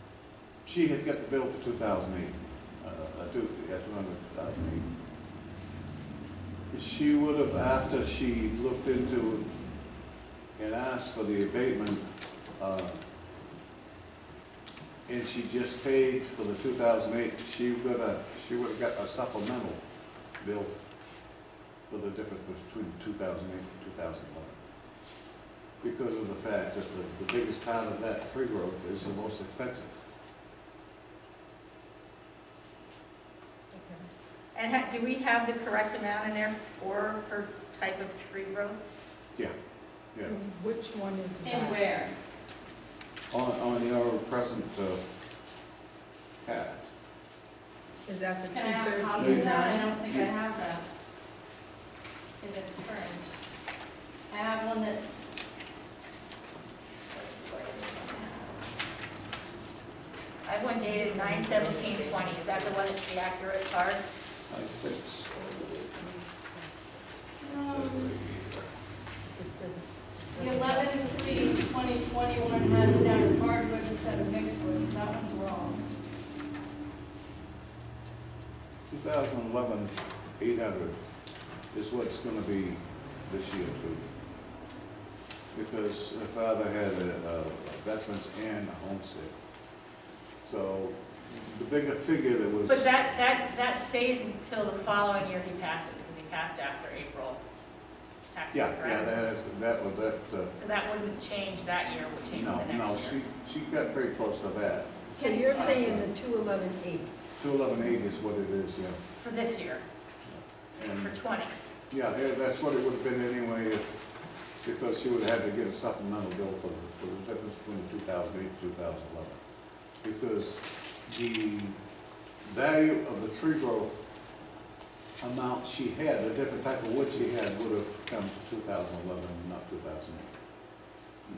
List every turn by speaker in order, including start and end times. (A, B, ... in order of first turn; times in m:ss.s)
0:00.6-0:04.9 A
0:06.7-0:09.5 A
0:10.6-0:12.0 A
0:12.6-0:12.9 A
0:15.1-0:19.8 A
0:20.4-0:20.7 A
0:21.9-0:24.6 A
0:25.8-0:29.9 A
0:33.7-0:34.0 B
0:34.5-0:38.8 C
0:40.2-0:41.8 B
0:41.4-0:42.1 D
0:43.3-0:45.0 A
0:46.4-0:46.9 A
0:48.0-0:49.9 B
0:48.5-0:50.8 D
0:49.2-0:50.3 A
0:52.4-0:53.3 D
0:54.3-0:55.4 D
0:57.1-0:58.6 D
1:00.4-1:04.0 C
1:00.9-1:02.7 B
1:01.4-1:01.8 A
1:04.5-1:06.2 A
1:06.2-1:06.7 B
1:07.4-1:08.1 D
1:07.6-1:08.7 A
1:09.2-1:11.4 B
1:10.3-1:15.8 D
1:18.9-1:21.0 A
1:21.7-1:24.0 A
1:25.5-1:29.3 A
1:30.4-1:32.9 A
1:32.7-1:37.4 C
1:38.3-1:39.1 C
1:38.5-1:40.5 A
1:40.5-1:43.2 C
1:42.3-1:46.1 A
1:45.2-1:45.7 D
1:45.2-1:47.2 B
1:47.4-1:49.0 A
1:49.2-1:49.8 C
1:50.2-1:51.1 A
1:51.0-1:51.5 C
1:51.9-1:53.8 A
1:54.6-1:59.4 A
2:00.0-2:01.8 A
2:02.4-2:04.0 A
2:05.2-2:10.3 A